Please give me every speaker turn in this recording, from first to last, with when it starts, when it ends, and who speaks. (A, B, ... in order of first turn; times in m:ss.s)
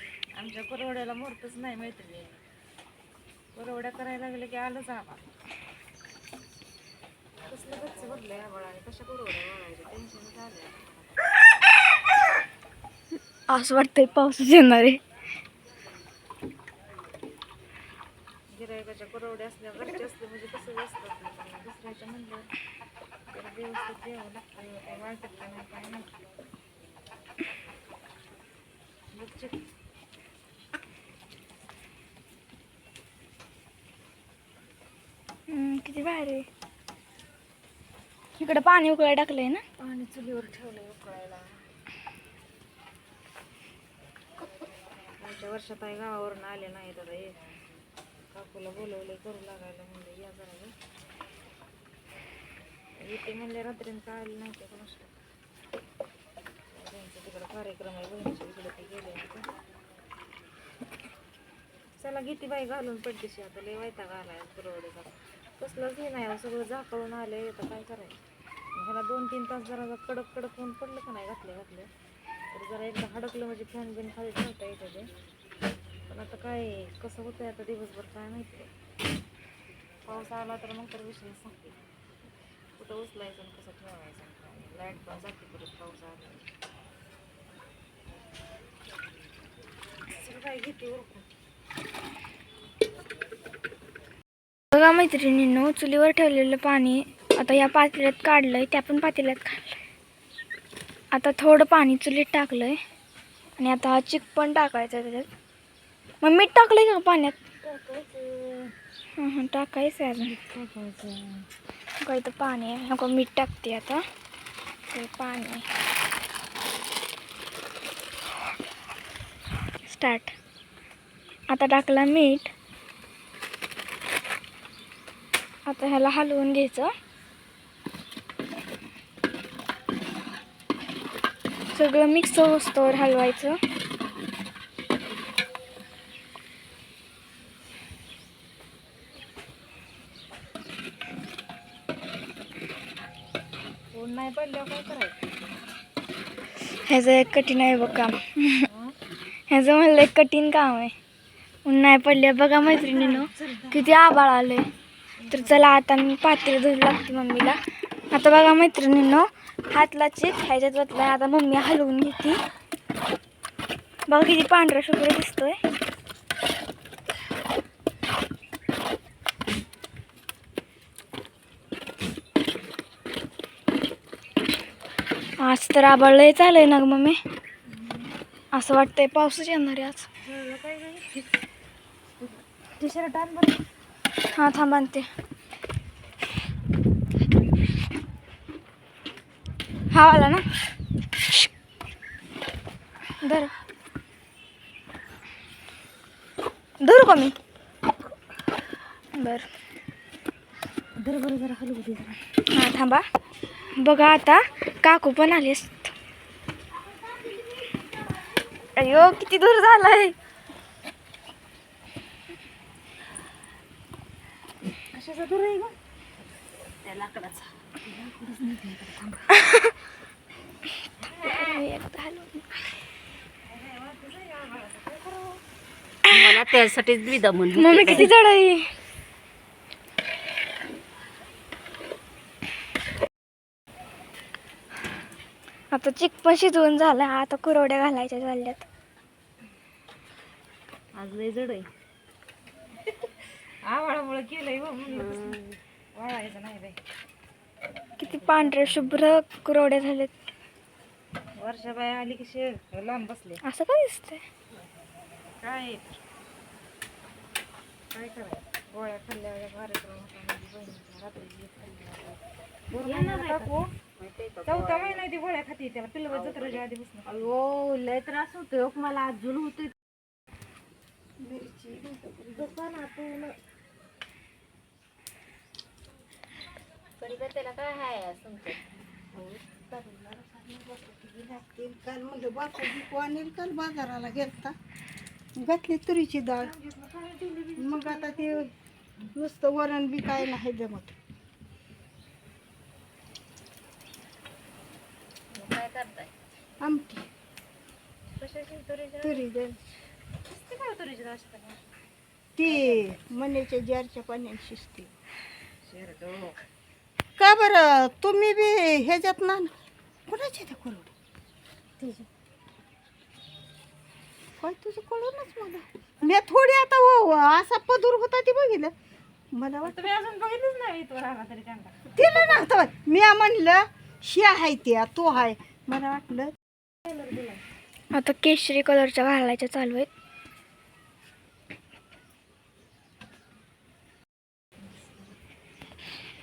0:00.4-0:02.4 A
0:03.5-0:05.2 A
0:07.5-0:11.3 A
0:13.5-0:15.0 B
0:18.5-0:22.5 A
0:23.3-0:26.2 A
0:29.1-0:29.6 A
0:35.5-0:36.5 B
0:38.4-0:39.6 B
0:39.8-0:41.5 A
0:45.2-0:47.4 A
0:48.3-0:50.7 A
0:53.0-0:55.1 A
0:56.7-0:59.5 A
1:02.0-1:08.2 A
1:08.8-1:11.9 A
1:12.5-1:15.1 A
1:16.1-1:18.7 A
1:20.1-1:21.8 A
1:22.8-1:26.5 A
1:30.1-1:31.3 A
1:34.7-1:39.8 B
1:41.1-1:42.8 B
1:43.6-1:45.3 B
1:46.2-1:47.4 B
1:47.6-1:48.7 A
1:49.2-1:50.3 B
1:50.2-1:51.5 A
1:52.0-1:54.0 B
1:54.9-1:55.7 B
1:59.8-2:00.3 B
2:01.5-2:02.5 B
2:05.7-2:06.9 B
2:11.7-2:13.6 B
2:23.9-2:25.2 A
2:26.9-2:28.7 B
2:28.7-2:29.0 A
2:29.5-2:30.9 B
2:31.6-2:34.7 B
2:32.7-2:33.9 A
2:35.2-2:35.8 A
2:35.3-2:37.6 B
2:38.1-2:42.4 B
2:44.1-2:45.6 B
2:55.4-2:57.2 B
2:58.5-3:00.1 B
3:00.2-3:01.4 A
3:02.2-3:03.6 A
3:04.4-3:05.1 B
3:09.9-3:10.4 B
3:13.2-3:13.5 B
3:16.8-3:17.4 B
3:19.2-3:19.4 B
3:21.0-3:22.2 A
3:22.5-3:23.1 B
3:23.8-3:25.9 B
3:28.8-3:30.2 B
3:34.9-3:35.8 A
3:36.9-3:39.3 A
3:39.3-3:39.7 B
3:41.2-3:41.5 A
3:41.2-3:42.5 B
3:43.4-3:45.4 A
3:46.0-3:46.4 B
3:46.1-3:48.1 C
3:47.5-3:48.7 B
3:55.7-3:58.6 B
4:01.0-4:01.7 A
4:03.6-4:05.4 A
4:06.0-4:06.8 A
4:08.0-4:10.1 B
4:08.0-4:09.2 A
4:11.4-4:13.4 A
4:13.4-4:14.2 B
4:15.4-4:16.0 A
4:17.9-4:22.2 A
4:22.7-4:23.6 A
4:22.8-4:23.4 C
4:24.0-4:25.0 C
4:24.5-4:27.3 A
4:26.1-4:26.6 C
4:27.5-4:27.8 C
4:31.2-4:32.6 D
4:32.3-4:33.4 A
4:37.0-4:38.6 C
4:39.1-4:44.6 D
4:45.4-4:46.5 D
4:46.4-4:48.4 A
4:47.6-4:48.5 D
4:49.1-4:51.0 D
4:55.4-4:56.1 C
4:56.6-4:57.1 D
4:58.2-4:59.1 A
4:59.0-4:59.6 D
5:00.3-5:01.6 A
5:02.4-5:04.9 D
5:02.5-5:02.9 C
5:05.6-5:06.4 A
5:07.2-5:09.5 D
5:10.1-5:10.9 D
5:14.4-5:18.7 D
5:19.3-5:19.8 D
5:19.6-5:21.8 A
5:21.9-5:26.3 D
5:26.9-5:27.4 A
5:27.9-5:29.9 B